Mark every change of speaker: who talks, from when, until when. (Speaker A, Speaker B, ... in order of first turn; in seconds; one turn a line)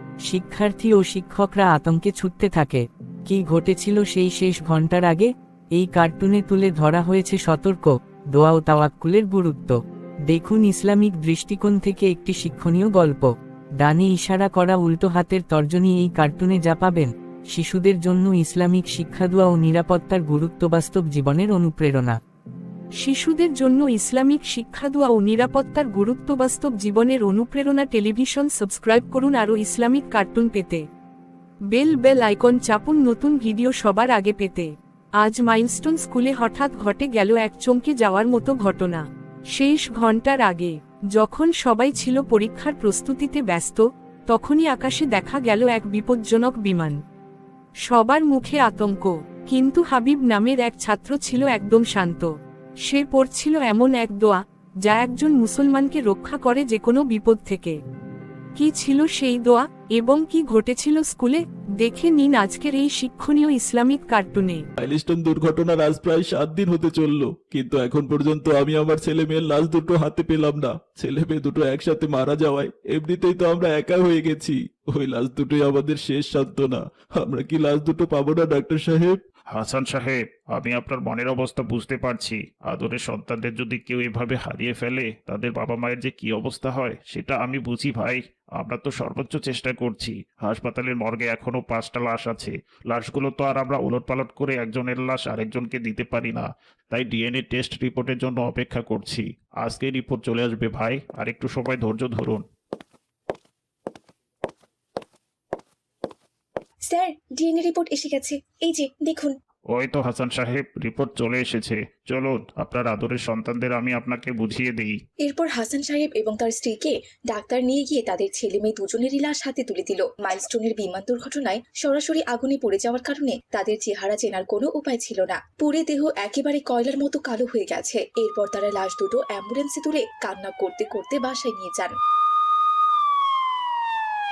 Speaker A: 0.3-9.8
Speaker A: 10.3-22.2
Speaker B: 23.0-30.8
Speaker B: 31.7-47.0
Speaker B: 47.9-52.3
Speaker B: 52.9-57.8
Speaker B: 58.5-64.6
Speaker C: 64.8-79.2
Speaker D: 79.5-102.4
Speaker E: 106.9-109.3
Speaker D: 109.7-115.0
Speaker E: 115.2-131.9